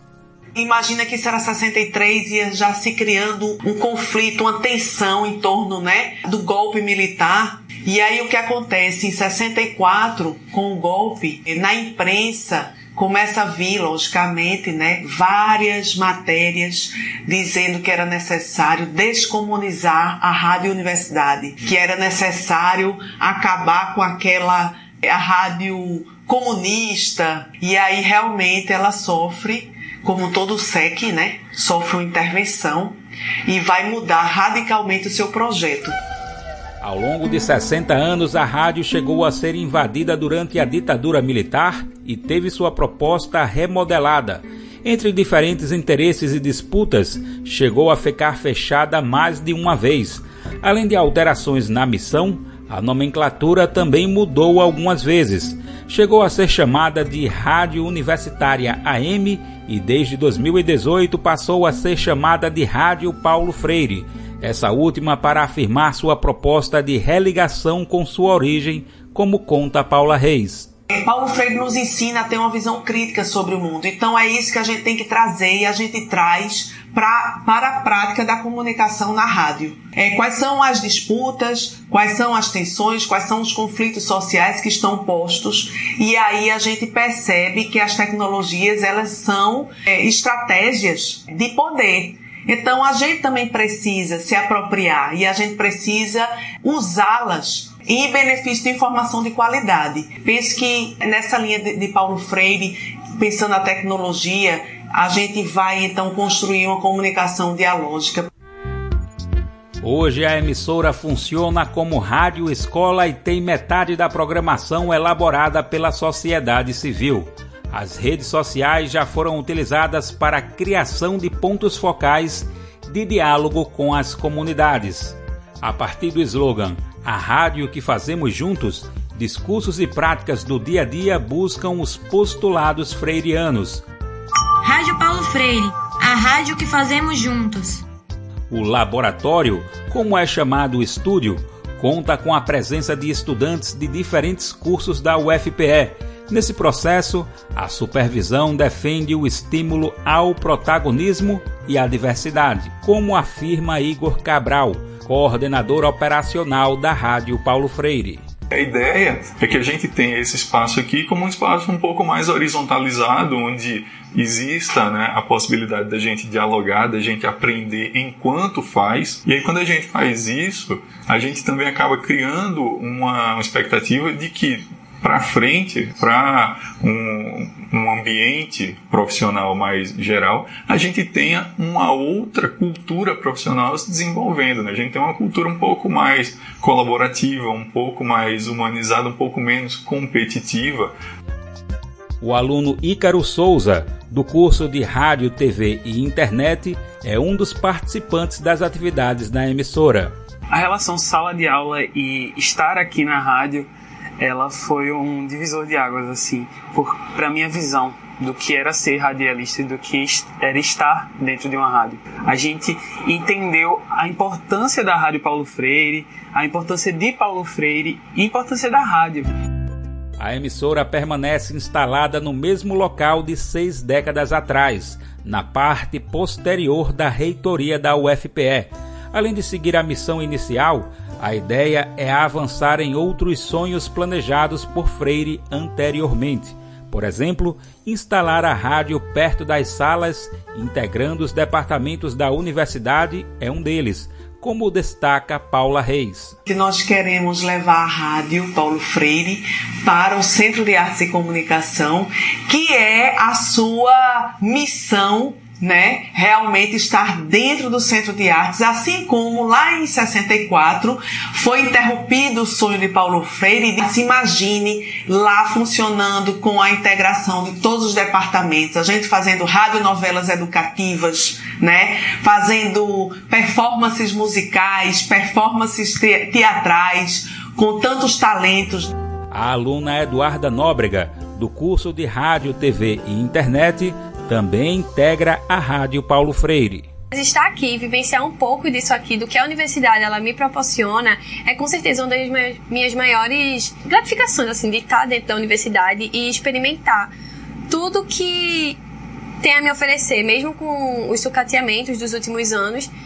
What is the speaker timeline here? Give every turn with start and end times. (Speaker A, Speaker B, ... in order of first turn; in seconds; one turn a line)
Speaker A: 0.6-36.0
Speaker B: 36.8-70.7
Speaker A: 70.9-108.3
Speaker B: 109.8-133.8
Speaker C: 134.6-137.8
Speaker B: 138.5-158.2
Speaker D: 158.5-190.9
Speaker B: 192.2-200.2
Speaker E: 200.5-219.3
Speaker B: 220.2-246.4
Speaker A: 246.5-278.9
Speaker B: 279.3-286.9
Speaker F: 287.1-297.1
Speaker F: 297.7-298.8
Speaker F: 299.4-302.9